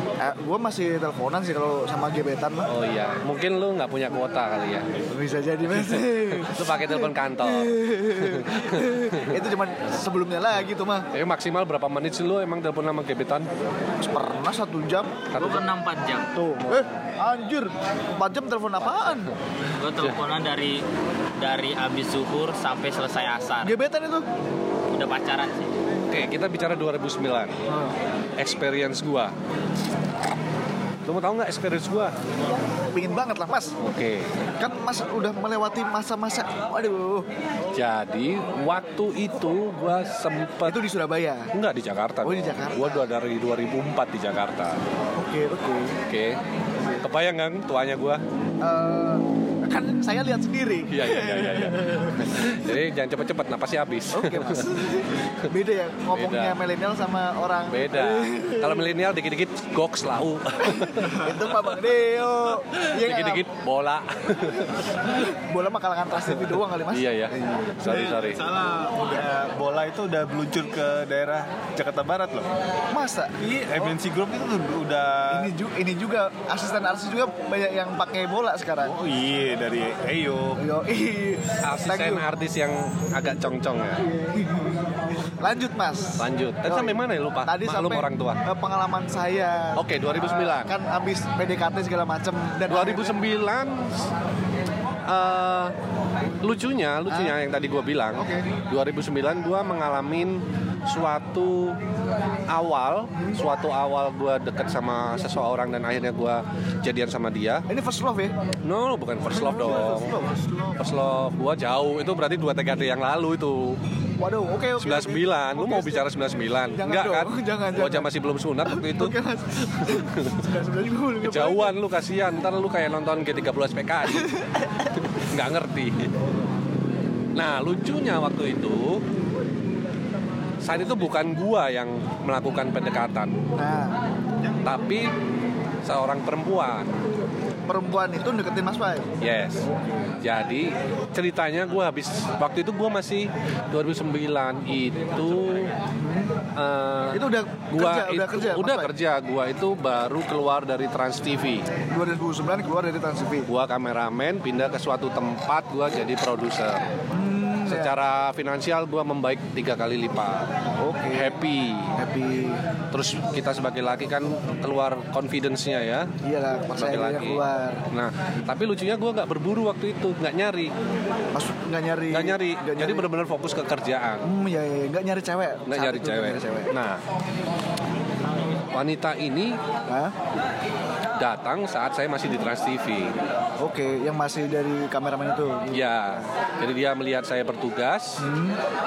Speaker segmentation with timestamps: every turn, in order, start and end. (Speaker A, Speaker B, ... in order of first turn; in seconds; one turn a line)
Speaker A: 0.2-2.7
Speaker B: 2.7-4.9
Speaker A: 5.1-11.1
Speaker B: 5.7-9.4
Speaker B: 11.1-13.5
Speaker A: 14.0-15.2
Speaker B: 15.3-15.6
Speaker C: 15.3-16.3
Speaker A: 16.3-19.3
Speaker B: 18.8-19.3
Speaker C: 19.8-20.8
Speaker C: 21.4-23.7
Speaker A: 23.6-24.2
Speaker C: 24.9-25.7
Speaker B: 26.1-27.6
Speaker A: 27.7-27.9
Speaker B: 28.4-29.3
Speaker B: 31.1-32.1
Speaker A: 32.9-33.8
Speaker B: 33.8-34.3
Speaker A: 34.6-37.3
Speaker B: 37.7-40.8
Speaker A: 40.6-41.5
Speaker B: 41.5-44.8
Speaker A: 42.2-43.1
Speaker A: 45.1-46.0
Speaker B: 46.1-46.4
Speaker B: 47.0-48.2
Speaker A: 48.6-52.3
Speaker B: 50.9-54.8
Speaker A: 54.1-58.9
Speaker B: 56.1-56.6
Speaker B: 57.7-61.2
Speaker A: 60.7-63.4
Speaker B: 62.7-65.3
Speaker A: 65.1-67.9
Speaker B: 66.2-68.4
Speaker D: 67.8-72.5
Speaker A: 72.9-73.9
Speaker D: 73.4-75.5
Speaker A: 75.3-78.9
Speaker D: 78.8-80.6
Speaker A: 80.6-82.2
Speaker B: 81.6-84.0
Speaker A: 84.0-93.1
Speaker B: 86.2-88.4
Speaker B: 89.7-90.7
Speaker B: 92.7-94.1
Speaker B: 95.1-95.7
Speaker B: 96.4-101.8
Speaker A: 97.1-97.3
Speaker A: 98.2-98.5
Speaker B: 102.5-107.7
Speaker A: 107.7-108.3
Speaker B: 108.6-110.2
Speaker A: 109.3-110.4
Speaker D: 110.1-110.5
Speaker B: 110.8-113.8
Speaker A: 114.2-116.0
Speaker B: 114.8-120.4
Speaker A: 116.8-118.1
Speaker A: 118.6-121.8
Speaker B: 121.2-124.3
Speaker A: 124.1-124.9
Speaker B: 125.0-126.1
Speaker B: 127.3-129.0
Speaker B: 130.6-133.4
Speaker A: 133.5-134.0
Speaker B: 134.6-135.1
Speaker B: 135.8-136.9
Speaker A: 137.7-139.1
Speaker B: 139.2-139.7
Speaker B: 140.2-145.7
Speaker A: 146.0-146.3
Speaker B: 146.5-151.7
Speaker A: 147.1-148.9
Speaker A: 151.9-153.5
Speaker B: 153.5-156.9
Speaker A: 157.1-157.9
Speaker B: 157.7-160.5
Speaker A: 160.8-161.4
Speaker B: 161.1-161.9
Speaker A: 161.9-162.6
Speaker B: 162.9-166.1
Speaker A: 166.2-167.8
Speaker B: 166.8-170.7
Speaker A: 171.3-173.1
Speaker B: 172.1-174.2
Speaker A: 174.2-176.7
Speaker B: 175.7-177.0
Speaker B: 178.7-179.6
Speaker A: 179.9-180.1
Speaker B: 181.2-183.1
Speaker A: 183.6-186.3
Speaker B: 185.7-188.2
Speaker A: 188.2-188.6